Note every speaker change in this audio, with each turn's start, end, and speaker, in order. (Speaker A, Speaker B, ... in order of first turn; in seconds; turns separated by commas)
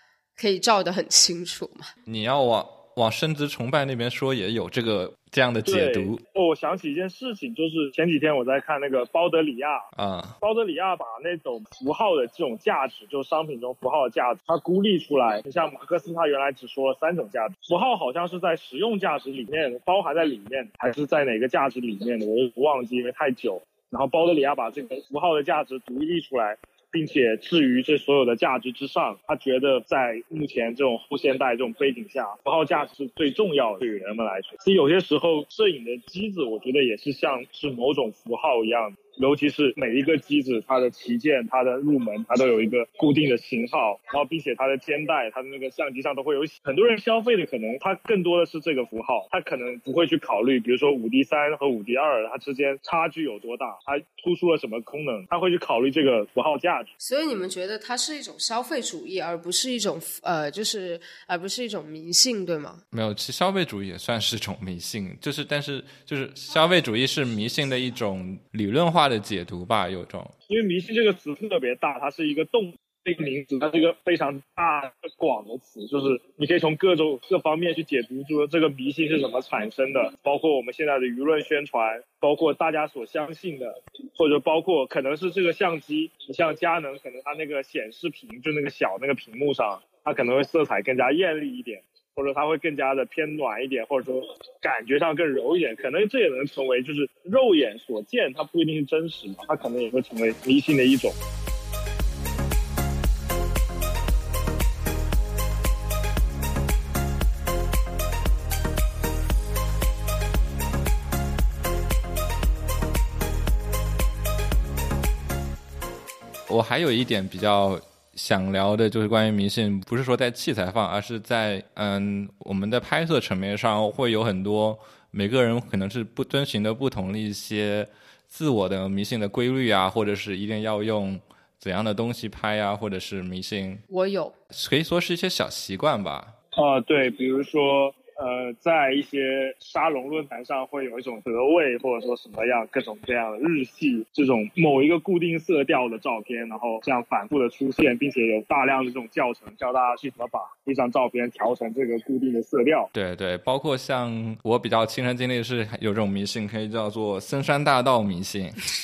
Speaker A: 0.4-1.9, Speaker B: 2.0-6.2, Speaker C: 5.6-9.9, Speaker B: 9.9-10.4, Speaker C: 10.4-56.9, Speaker A: 57.0-62.8, Speaker B: 62.9-70.3, Speaker C: 70.5-101.2, Speaker B: 116.5-133.8, Speaker A: 133.9-134.3, Speaker B: 134.5-136.3, Speaker C: 136.6-152.9, Speaker B: 152.9-158.6